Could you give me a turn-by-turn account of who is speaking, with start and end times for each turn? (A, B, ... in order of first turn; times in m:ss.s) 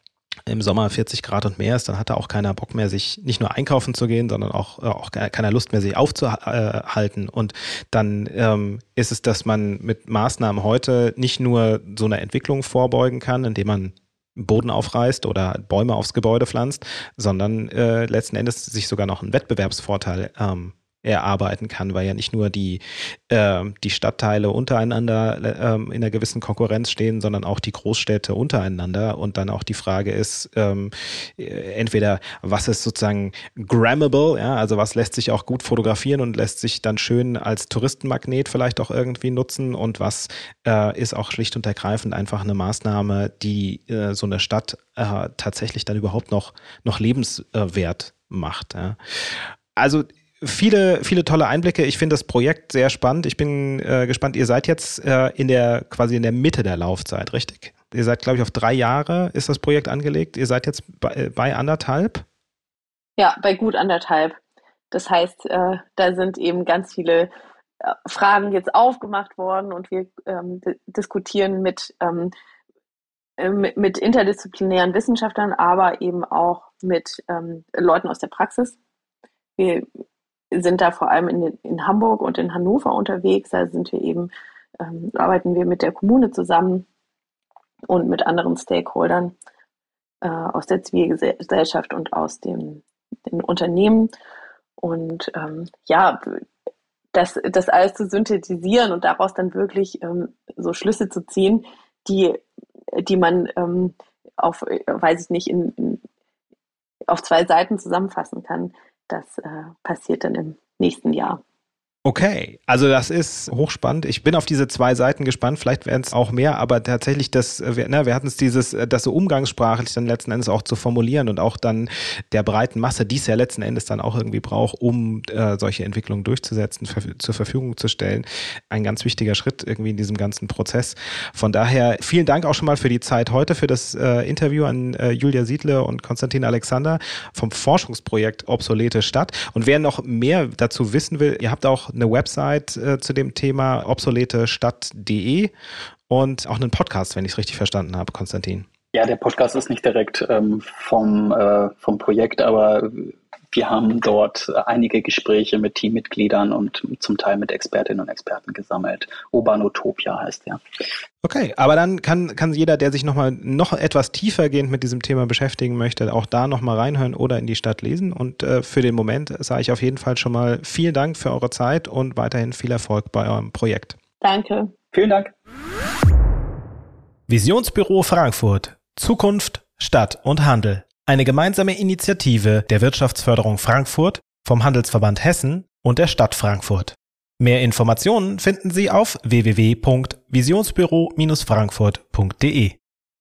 0:00.5-1:02.2 A
1:03.2-1:04.4 B
1:04.9-1:07.3 B
1:07.8-1:12.3 B
1:13.4-1:18.8 B
1:19.6-1:19.9 B
1:20.5-1:26.9 B
1:27.9-1:29.3 B
1:30.2-1:34.1 B
1:34.8-1:36.4 B
1:37.1-1:42.4 B
1:42.9-1:46.0 B
1:47.1-1:51.4 B
1:52.0-2:25.5 A
2:26.1-2:28.7 A
2:28.9-2:40.6 C
2:41.2-2:54.0 A
2:54.2-2:54.7 B
2:54.9-2:55.3 C
2:57.3-3:12.8 A